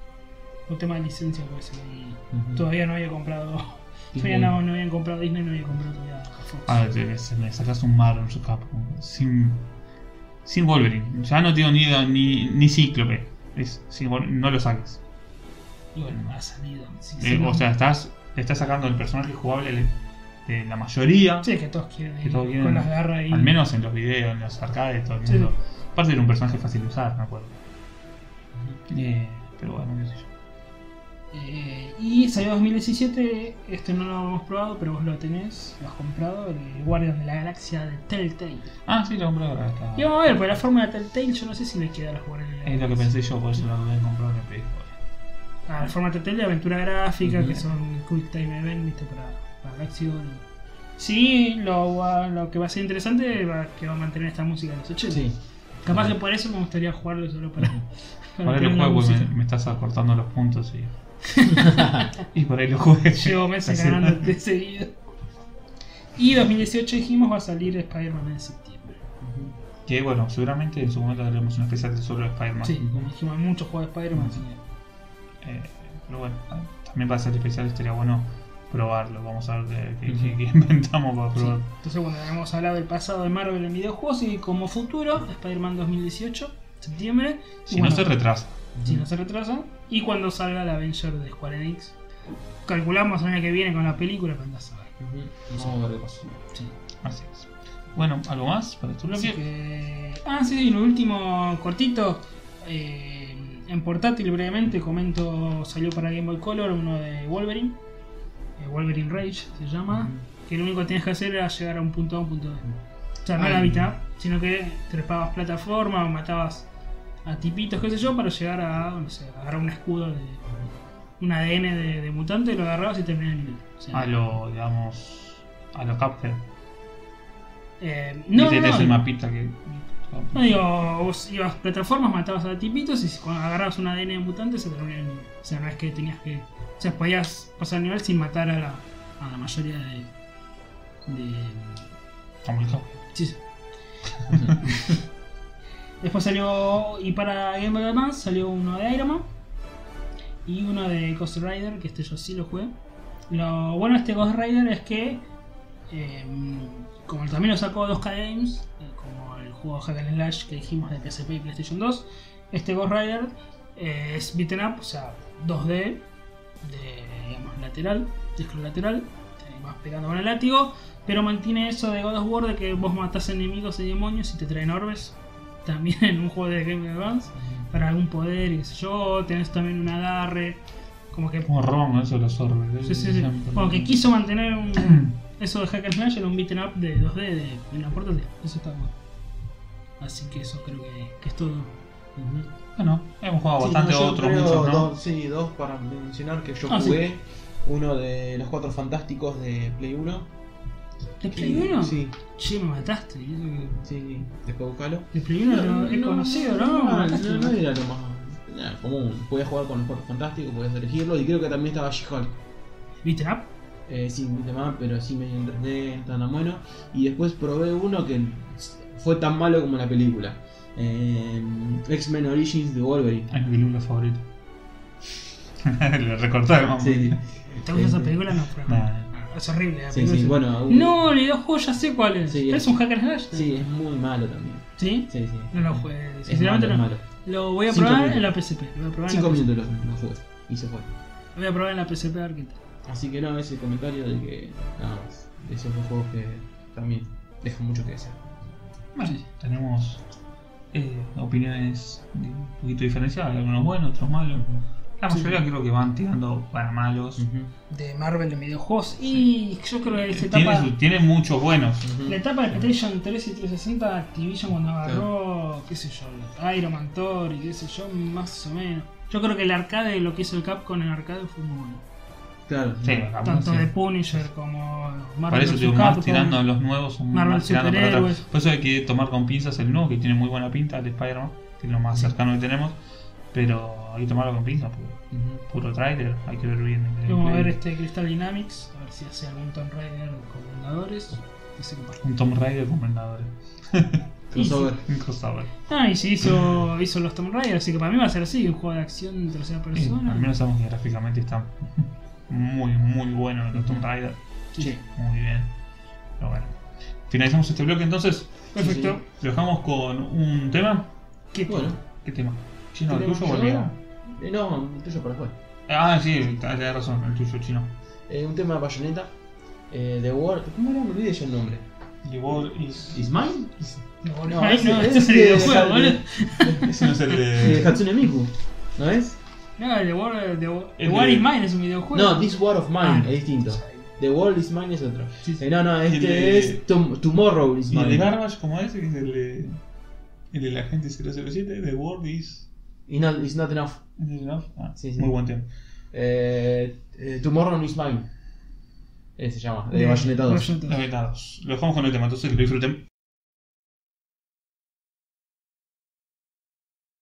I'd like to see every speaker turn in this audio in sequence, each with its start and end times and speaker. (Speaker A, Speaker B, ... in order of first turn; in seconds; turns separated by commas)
Speaker A: 0.7-6.8, Speaker B: 2.3-2.6, Speaker B: 4.1-4.5, Speaker C: 6.7-9.7, Speaker C: 10.4-15.0, Speaker A: 15.9-17.6, Speaker C: 17.2-19.9, Speaker C: 20.4-21.5, Speaker A: 21.4-23.5, Speaker C: 22.2-27.6, Speaker A: 25.2-25.5, Speaker C: 28.9-30.3, Speaker A: 31.3-38.7, Speaker C: 38.9-40.6, Speaker A: 39.9-43.1, Speaker C: 42.6-45.0, Speaker A: 45.7-50.4, Speaker B: 47.2-47.5, Speaker A: 51.0-55.3, Speaker B: 55.1-55.4, Speaker A: 55.8-57.8, Speaker A: 58.3-59.3, Speaker C: 58.4-61.5, Speaker A: 61.2-62.0, Speaker B: 61.6-62.0, Speaker C: 62.2-64.3, Speaker A: 63.1-65.0, Speaker A: 66.2-69.0, Speaker B: 69.2-69.5, Speaker C: 69.8-73.0, Speaker A: 72.6-74.5, Speaker C: 74.1-74.5, Speaker C: 75.4-81.7, Speaker B: 80.1-80.4, Speaker A: 81.3-88.1, Speaker C: 87.7-88.6, Speaker B: 88.7-89.0, Speaker A: 88.8-92.0, Speaker A: 92.7-94.9, Speaker B: 95.0-96.4, Speaker C: 97.0-99.4, Speaker A: 99.0-107.8, Speaker A: 108.6-112.7, Speaker B: 109.9-110.2, Speaker A: 113.2-116.7, Speaker B: 113.4-113.8, Speaker A: 117.2-120.4, Speaker A: 121.2-124.1, Speaker C: 123.9-126.4, Speaker A: 127.8-129.0, Speaker C: 128.3-130.7, Speaker A: 130.3-140.1, Speaker A: 141.1-141.9, Speaker C: 142.4-143.0, Speaker A: 143.1-143.4, Speaker C: 144.3-144.5, Speaker A: 144.6-144.9, Speaker A: 146.0-149.3, Speaker A: 150.4-152.7, Speaker A: 153.3-155.2, Speaker A: 155.9-166.0, Speaker A: 166.6-180.6, Speaker B: 177.4-177.7, Speaker A: 181.1-181.5, Speaker C: 181.5-184.1, Speaker A: 182.8-188.9, Speaker C: 184.8-185.1, Speaker A: 190.0-191.8, Speaker B: 192.2-192.5, Speaker C: 192.8-194.9, Speaker B: 193.6-200.3, Speaker A: 196.7-197.0, Speaker A: 201.2-203.9, Speaker B: 201.3-202.1, Speaker B: 203.8-212.4, Speaker A: 205.1-207.6, Speaker A: 213.0-213.5, Speaker B: 213.9-223.3, Speaker C: 223.3-224.2, Speaker C: 225.6-227.2, Speaker B: 226.8-228.2, Speaker A: 227.6-233.6, Speaker C: 228.7-229.1, Speaker B: 229.9-231.0, Speaker B: 232.2-232.7, Speaker B: 233.3-237.0, Speaker A: 234.8-239.5, Speaker B: 237.7-238.3, Speaker B: 239.1-240.9, Speaker A: 241.3-242.6, Speaker B: 242.8-248.3, Speaker C: 248.9-250.0, Speaker C: 250.7-257.2, Speaker B: 254.3-254.6, Speaker A: 255.1-255.4, Speaker B: 257.2-257.5, Speaker A: 257.7-260.7, Speaker C: 259.9-262.0, Speaker B: 261.8-262.2, Speaker A: 262.0-271.8, Speaker B: 272.5-273.1, Speaker C: 272.8-273.7, Speaker A: 273.2-276.4, Speaker C: 275.3-282.8, Speaker A: 277.1-278.2, Speaker C: 283.3-287.6, Speaker B: 285.1-285.4, Speaker A: 287.1-292.0, Speaker C: 292.0-294.0, Speaker B: 294.3-294.8, Speaker A: 294.3-294.7, Speaker C: 294.9-295.5, Speaker A: 295.7-300.3, Speaker C: 299.7-305.5, Speaker B: 303.5-303.8, Speaker A: 304.5-304.8, Speaker C: 306.2-306.6, Speaker C: 307.1-308.5, Speaker A: 308.5-309.0, Speaker B: 308.6-308.9, Speaker C: 309.0-310.9, Speaker A: 311.3-311.7, Speaker B: 311.5-311.8, Speaker C: 311.8-313.8, Speaker B: 312.9-315.4, Speaker C: 315.7-317.7, Speaker B: 318.1-319.1, Speaker B: 319.7-321.6, Speaker C: 322.0-323.1, Speaker B: 322.9-326.6, Speaker A: 324.0-327.2, Speaker C: 326.6-327.7, Speaker B: 327.3-329.2, Speaker A: 329.6-333.9, Speaker C: 330.8-331.3, Speaker B: 331.9-338.1, Speaker C: 335.8-336.6, Speaker C: 337.7-339.6, Speaker C: 340.3-342.5, Speaker B: 342.9-343.8, Speaker C: 344.0-345.5, Speaker B: 344.8-345.1, Speaker B: 345.9-348.1, Speaker B: 349.1-350.5, Speaker A: 349.7-350.8, Speaker C: 350.6-352.8